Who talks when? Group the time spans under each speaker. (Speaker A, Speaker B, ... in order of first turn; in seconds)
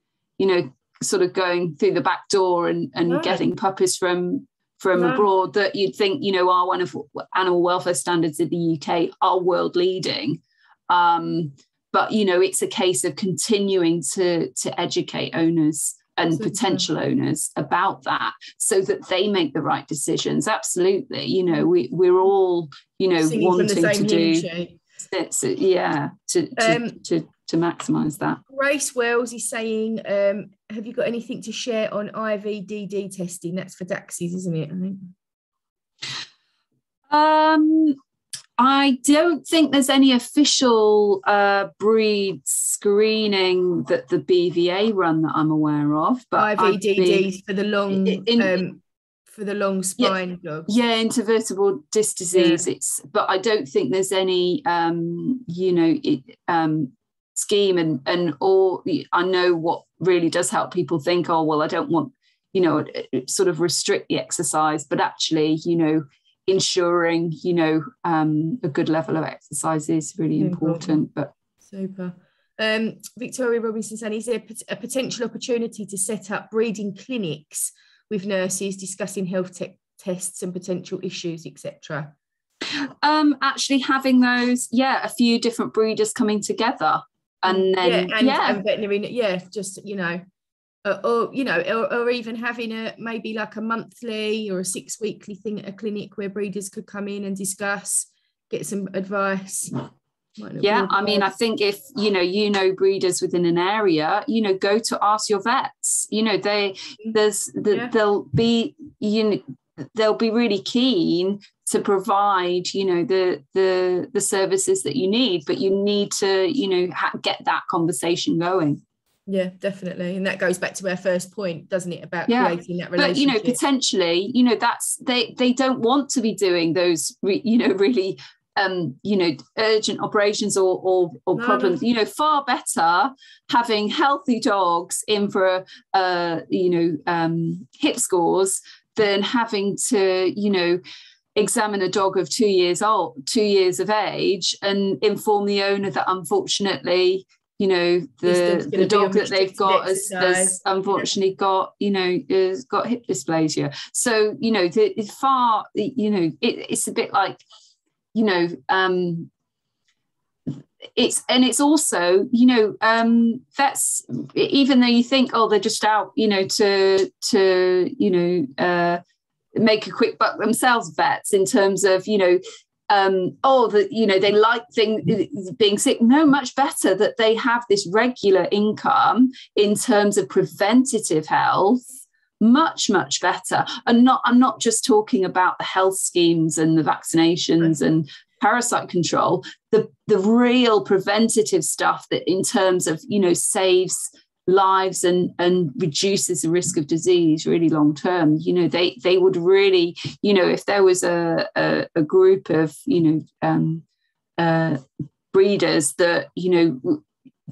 Speaker A: 0.4-24.5, 25.0-28.4, 37.1-38.0, 38.6-47.2, 47.9-48.6, 50.7-71.3, 82.7-88.6, 100.6-118.8, 122.3-140.8, 141.4-157.4, 158.1-159.3, 160.5-169.0, 169.5-203.8, 204.4-204.8, 205.3-207.0
Speaker B: 3.1-3.5, 5.0-5.3, 16.3-16.9, 23.2-24.8, 26.6-27.0, 28.5-35.1, 46.4-50.7, 52.3-52.7, 70.4-71.0, 71.6-82.1, 87.5-90.2, 90.8-99.8, 100.4-101.3, 119.3-123.6, 131.3-131.8, 148.2-151.1